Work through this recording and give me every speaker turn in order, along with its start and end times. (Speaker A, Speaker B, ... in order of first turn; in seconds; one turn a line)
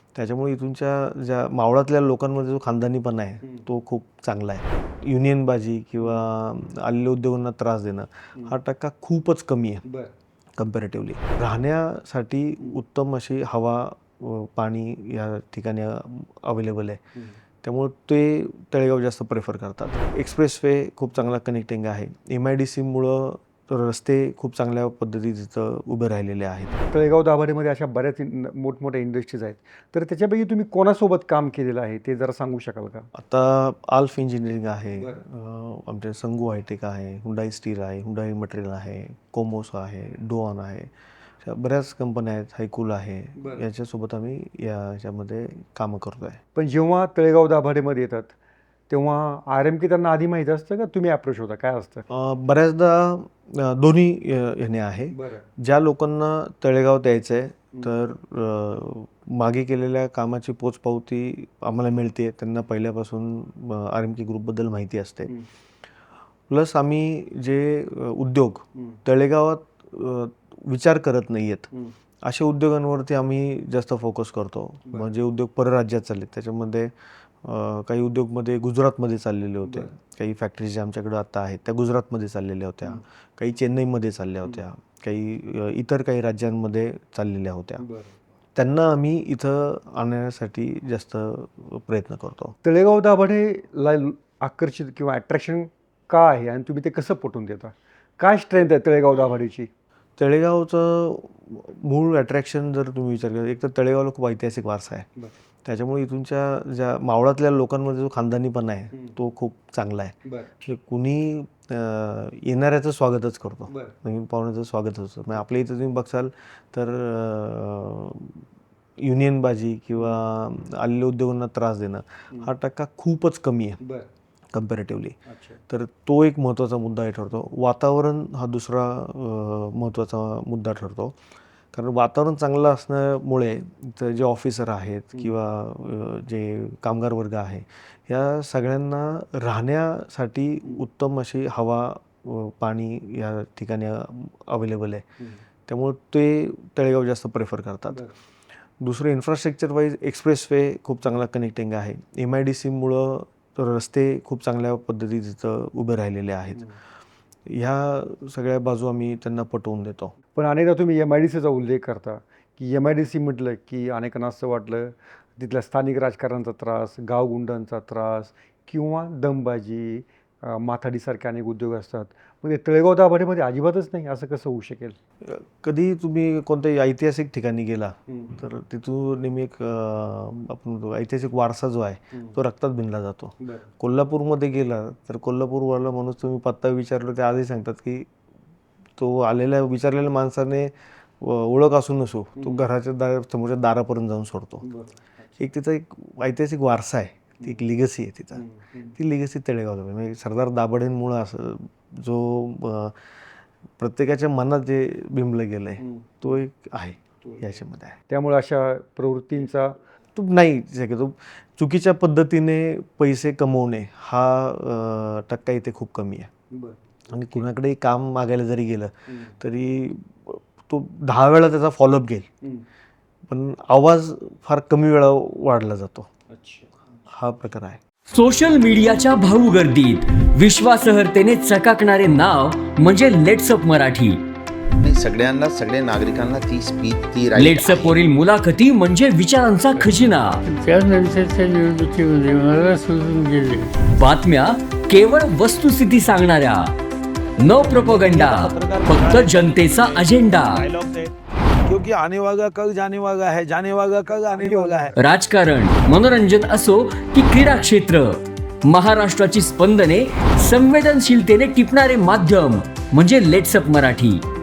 Speaker A: 0.1-9.8
Speaker B: 9.8-10.1
Speaker A: 10.6-17.0
Speaker A: 17.6-26.8
Speaker B: 26.8-33.1
Speaker A: 33.1-40.9
Speaker B: 34.9-35.2
Speaker A: 41.4-46.4
Speaker B: 43.4-43.6
Speaker B: 46.5-48.3
Speaker B: 48.9-52.0
Speaker A: 52.1-65.3
Speaker B: 55.1-55.5
Speaker A: 66.5-71.7
Speaker A: 72.2-76.9
Speaker A: 77.4-87.8
Speaker B: 79.6-79.9
Speaker B: 87.8-88.2
Speaker A: 88.5-92.5
Speaker B: 92.6-99.7
Speaker A: 100.2-105.1
Speaker A: 105.6-118.4
Speaker B: 110.2-110.5
Speaker B: 113.7-113.9
Speaker A: 119.0-123.8
Speaker B: 123.8-124.1
Speaker A: 124.5-125.2
Speaker B: 125.3-125.6
Speaker A: 125.7-131.2
Speaker A: 131.7-145.0
Speaker A: 145.7-148.0
Speaker B: 147.9-148.2
Speaker A: 148.8-156.6
Speaker A: 157.5-160.1
Speaker B: 160.3-174.9
Speaker A: 175.2-188.1
Speaker B: 178.1-178.3
Speaker B: 183.4-183.7
Speaker A: 189.0-194.6
Speaker B: 192.4-192.6
Speaker B: 194.6-195.4
Speaker A: 195.4-198.4
Speaker B: 198.3-199.0
Speaker A: 198.9-202.9
Speaker A: 203.8-208.0
Speaker B: 205.8-206.2
Speaker B: 207.2-207.6
Speaker B: 208.1-209.7
Speaker A: 210.1-216.3
Speaker B: 216.5-217.4
Speaker A: 217.1-222.3
Speaker B: 219.1-219.3
Speaker A: 223.3-226.1
Speaker B: 226.3-226.7
Speaker A: 227.1-227.8
Speaker C: 228.1-234.2
Speaker D: 234.8-238.0
Speaker C: 237.3-240.4
Speaker E: 240.5-243.7
Speaker C: 243.9-246.7
Speaker C: 247.4-250.7
Speaker F: 247.6-251.1
Speaker A: 248.7-249.6
Speaker F: 251.7-254.9
Speaker A: 252.4-253.2
Speaker B: 254.3-254.9
Speaker C: 254.9-264.2